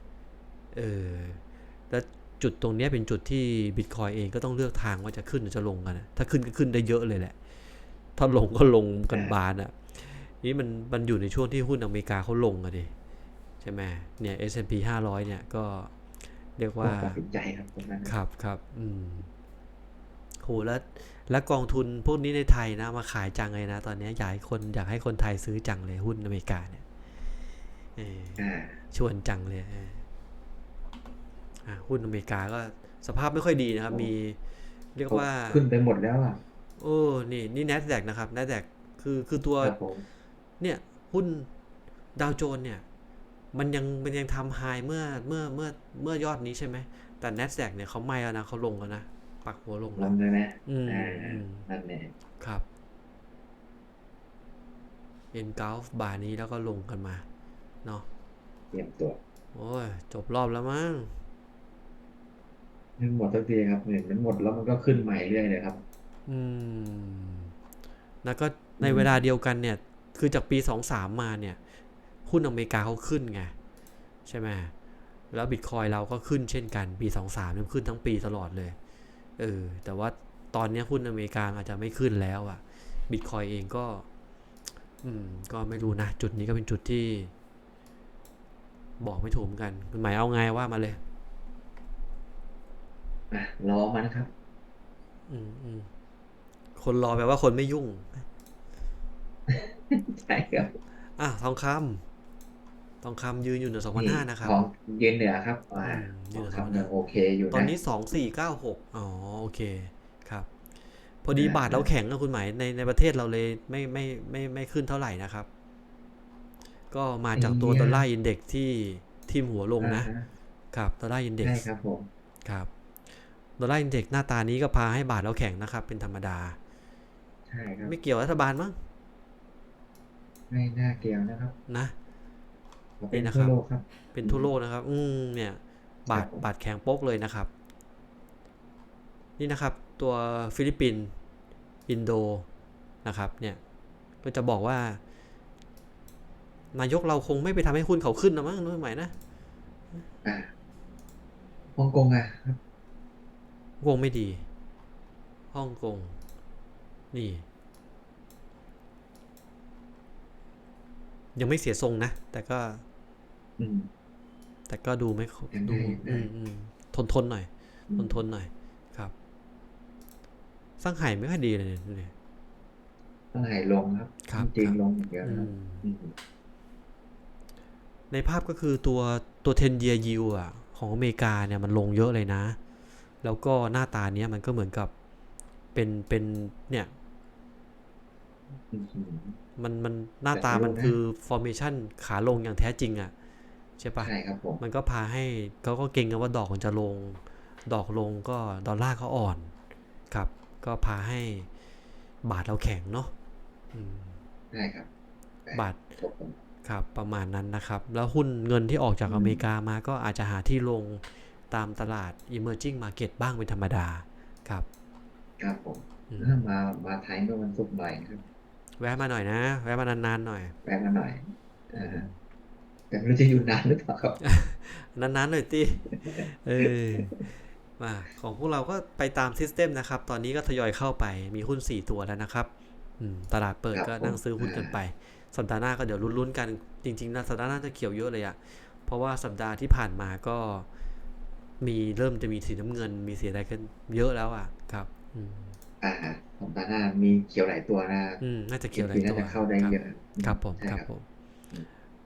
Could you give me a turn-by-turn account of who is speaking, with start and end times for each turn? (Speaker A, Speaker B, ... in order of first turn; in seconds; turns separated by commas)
Speaker A: 0.7-7.3, Speaker A: 8.2-12.9, Speaker A: 13.6-15.9, Speaker A: 16.6-17.2, Speaker B: 16.8-18.1, Speaker A: 18.0-19.3, Speaker A: 20.4-26.8, Speaker A: 27.9-30.0, Speaker B: 28.4-28.8, Speaker A: 31.6-34.4, Speaker A: 34.9-35.6, Speaker B: 35.1-36.4, Speaker A: 36.8-39.8, Speaker B: 39.6-40.0, Speaker A: 40.6-41.5, Speaker A: 42.1-42.8, Speaker A: 43.5-50.1, Speaker B: 50.0-52.1, Speaker A: 50.6-51.7, Speaker A: 55.3-57.2, Speaker B: 58.7-59.2, Speaker A: 59.5-61.1, Speaker B: 63.0-65.8, Speaker A: 66.3-67.5, Speaker A: 68.2-71.6, Speaker B: 68.8-69.2, Speaker A: 72.2-73.5, Speaker A: 74.2-74.7, Speaker A: 75.3-78.8, Speaker A: 79.4-84.0, Speaker A: 85.0-87.3, Speaker A: 89.0-91.0, Speaker B: 93.3-94.3, Speaker A: 95.3-95.9, Speaker A: 96.8-98.2, Speaker B: 99.5-100.7, Speaker A: 101.2-102.0, Speaker A: 103.0-104.6, Speaker B: 103.9-107.7, Speaker A: 105.8-106.9, Speaker A: 107.5-110.5, Speaker A: 111.2-115.5, Speaker B: 111.3-111.9, Speaker A: 116.9-120.1, Speaker B: 117.3-118.0, Speaker B: 119.8-120.3, Speaker A: 120.7-121.6, Speaker B: 121.4-122.1, Speaker A: 122.4-122.7, Speaker A: 123.6-126.6, Speaker B: 127.5-127.9, Speaker A: 127.8-128.8, Speaker B: 130.5-131.5, Speaker A: 131.7-131.9, Speaker B: 133.0-134.5, Speaker A: 133.1-133.6, Speaker A: 134.1-137.5, Speaker B: 136.1-136.4, Speaker A: 139.4-141.1, Speaker A: 141.9-142.5, Speaker A: 143.0-143.6, Speaker A: 144.2-145.0, Speaker A: 146.7-149.1, Speaker B: 150.2-150.5, Speaker B: 151.8-152.6, Speaker A: 153.8-154.4, Speaker A: 155.5-156.2, Speaker A: 157.1-157.4, Speaker A: 161.3-162.8, Speaker B: 163.6-163.9, Speaker A: 164.7-169.1, Speaker B: 165.5-166.3, Speaker B: 167.9-168.2, Speaker A: 170.8-172.1, Speaker B: 173.3-176.1, Speaker A: 174.2-175.9, Speaker A: 178.1-182.6, Speaker A: 183.2-184.9, Speaker A: 185.7-186.9, Speaker B: 188.7-189.4, Speaker A: 189.6-193.1, Speaker B: 190.3-191.0, Speaker A: 193.8-199.5, Speaker B: 194.0-194.6, Speaker A: 200.1-201.5, Speaker A: 202.2-203.1, Speaker A: 203.7-204.2, Speaker B: 204.5-204.9, Speaker B: 205.4-206.4, Speaker A: 205.5-205.8, Speaker A: 206.6-214.7, Speaker B: 209.1-209.4, Speaker B: 215.4-218.2, Speaker A: 216.1-216.4, Speaker A: 218.8-220.5, Speaker B: 220.6-222.1, Speaker B: 222.9-224.2, Speaker A: 224.2-240.7, Speaker B: 226.0-226.7, Speaker B: 233.7-234.8, Speaker A: 241.6-245.6, Speaker B: 245.8-250.8, Speaker A: 248.2-251.0